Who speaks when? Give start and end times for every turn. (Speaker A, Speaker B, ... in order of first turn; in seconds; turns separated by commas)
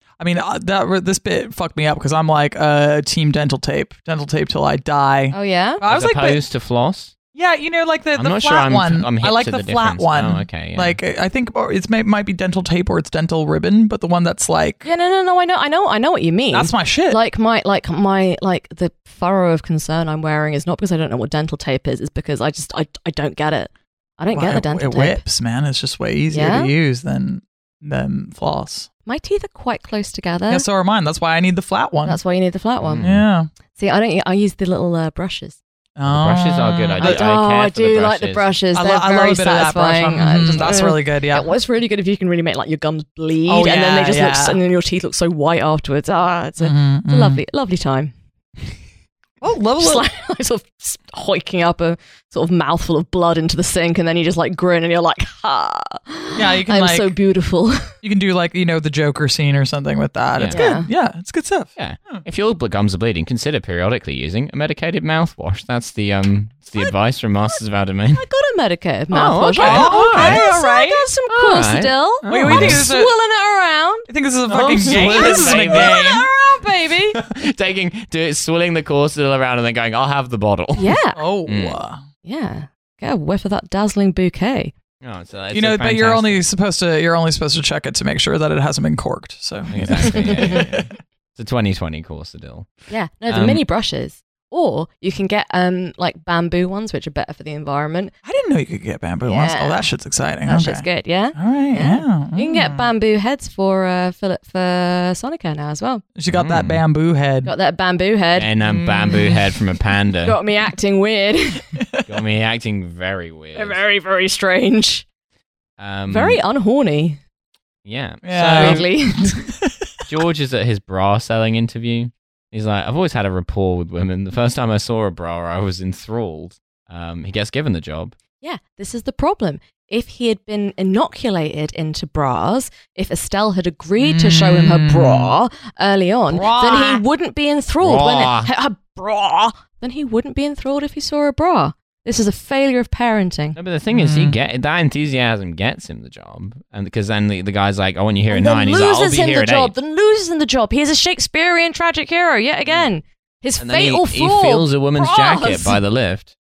Speaker A: 0.2-6.4, Speaker B: 5.3-5.8, Speaker C: 5.8-7.1, Speaker A: 7.3-14.8, Speaker C: 8.2-11.0, Speaker B: 14.8-25.2, Speaker A: 16.5-17.2, Speaker A: 24.3-28.9, Speaker B: 26.3-26.7, Speaker B: 29.1-30.6, Speaker A: 30.5-32.2, Speaker B: 32.0-33.1, Speaker C: 32.8-33.2, Speaker A: 33.0-33.5, Speaker B: 33.7-35.6, Speaker A: 36.0-37.2, Speaker C: 36.0-38.5, Speaker B: 37.0-48.1, Speaker A: 38.7-41.5, Speaker A: 43.5-44.6, Speaker A: 46.6-47.4, Speaker A: 49.4-50.0, Speaker B: 49.8-57.9, Speaker A: 56.4-57.1, Speaker A: 58.0-62.2, Speaker C: 60.4-60.6, Speaker B: 60.5-60.9, Speaker C: 61.8-68.2, Speaker B: 68.1-74.1, Speaker C: 69.1-70.4, Speaker A: 69.6-71.4, Speaker C: 71.4-72.8, Speaker A: 72.2-73.1, Speaker A: 74.1-76.3, Speaker C: 74.5-76.1, Speaker B: 74.8-77.2, Speaker C: 77.1-81.8, Speaker B: 80.8-81.2, Speaker A: 81.2-82.0, Speaker B: 82.2-84.7, Speaker C: 85.0-86.4, Speaker A: 85.5-90.9, Speaker C: 89.7-93.6, Speaker B: 90.0-90.7, Speaker B: 92.9-98.1, Speaker A: 98.2-102.9, Speaker B: 99.2-99.8, Speaker B: 100.4-106.0, Speaker A: 106.2-107.5, Speaker C: 106.3-106.8, Speaker B: 107.4-108.5, Speaker C: 108.3-110.4, Speaker A: 108.6-109.6, Speaker B: 110.2-111.6, Speaker A: 111.8-112.0, Speaker C: 112.1-113.8, Speaker B: 113.5-115.0, Speaker C: 115.8-116.4, Speaker B: 116.1-117.2, Speaker C: 117.8-118.8, Speaker A: 118.2-118.9, Speaker B: 118.5-119.5, Speaker C: 120.1-128.1, Speaker B: 128.4-143.6, Speaker A: 134.0-135.3, Speaker A: 136.3-137.0, Speaker C: 137.8-138.5, Speaker C: 143.5-149.7, Speaker A: 143.9-144.4, Speaker B: 148.3-155.8, Speaker C: 153.6-156.3